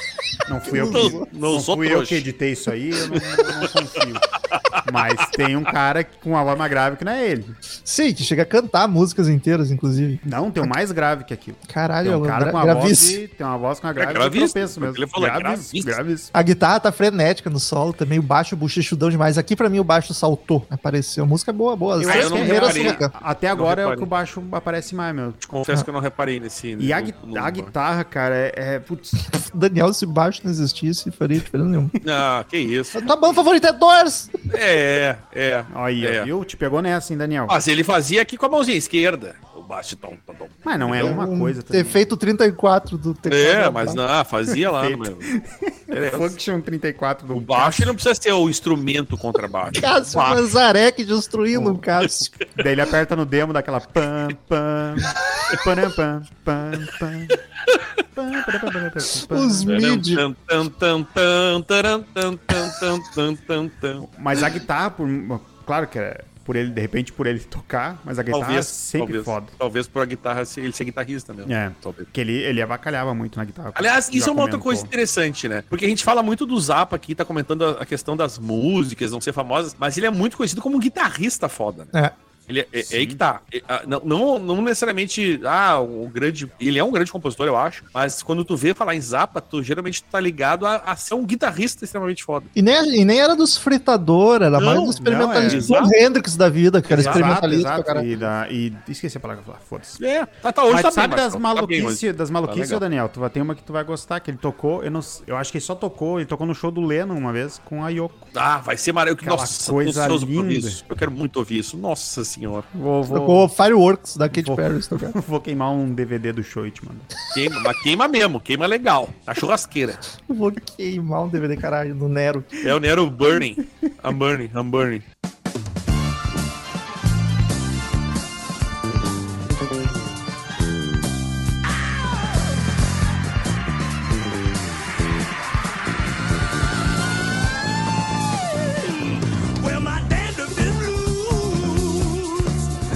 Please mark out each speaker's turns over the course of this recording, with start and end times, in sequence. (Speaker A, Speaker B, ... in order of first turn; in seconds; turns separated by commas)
Speaker A: 0.5-4.2, Speaker B: 0.7-1.3, Speaker C: 0.7-2.2, Speaker C: 3.2-3.7, Speaker C: 4.5-4.8, Speaker A: 4.8-7.5, Speaker B: 7.8-10.7, Speaker A: 10.2-16.3, Speaker B: 11.7-13.2, Speaker C: 13.9-16.0, Speaker B: 16.3-23.1, Speaker A: 22.0-25.4, Speaker C: 22.0-23.0, Speaker C: 23.5-24.1, Speaker C: 25.4-27.7, Speaker A: 26.8-29.1, Speaker B: 29.1-31.9, Speaker C: 32.0-33.1, Speaker B: 33.0-34.3, Speaker C: 34.5-36.3, Speaker A: 35.7-37.6, Speaker C: 37.5-41.2, Speaker A: 40.6-42.0, Speaker B: 40.9-44.0, Speaker C: 43.3-45.3, Speaker A: 44.5-48.0, Speaker C: 45.9-46.4, Speaker C: 47.3-50.6, Speaker B: 49.7-52.3, Speaker C: 51.6-52.6, Speaker A: 52.5-57.4, Speaker C: 57.6-58.0, Speaker A: 58.1-59.8, Speaker B: 59.3-60.2, Speaker C: 59.6-64.4, Speaker A: 64.0-69.5, Speaker C: 68.3-72.1, Speaker A: 71.5-74.9, Speaker C: 73.8-81.9, Speaker C: 82.5-92.5, Speaker A: 82.8-83.2, Speaker B: 92.5-98.2, Speaker C: 94.5-96.0, Speaker A: 95.0-95.8, Speaker C: 96.9-97.4, Speaker A: 96.9-100.0, Speaker C: 100.0-102.8, Speaker A: 100.7-108.3, Speaker C: 108.3-112.7, Speaker A: 109.2-110.8, Speaker A: 112.7-113.5, Speaker B: 113.1-115.2, Speaker A: 114.3-117.1, Speaker C: 117.3-120.0, Speaker B: 120.2-122.6, Speaker C: 122.6-125.0, Speaker D: 138.5-142.7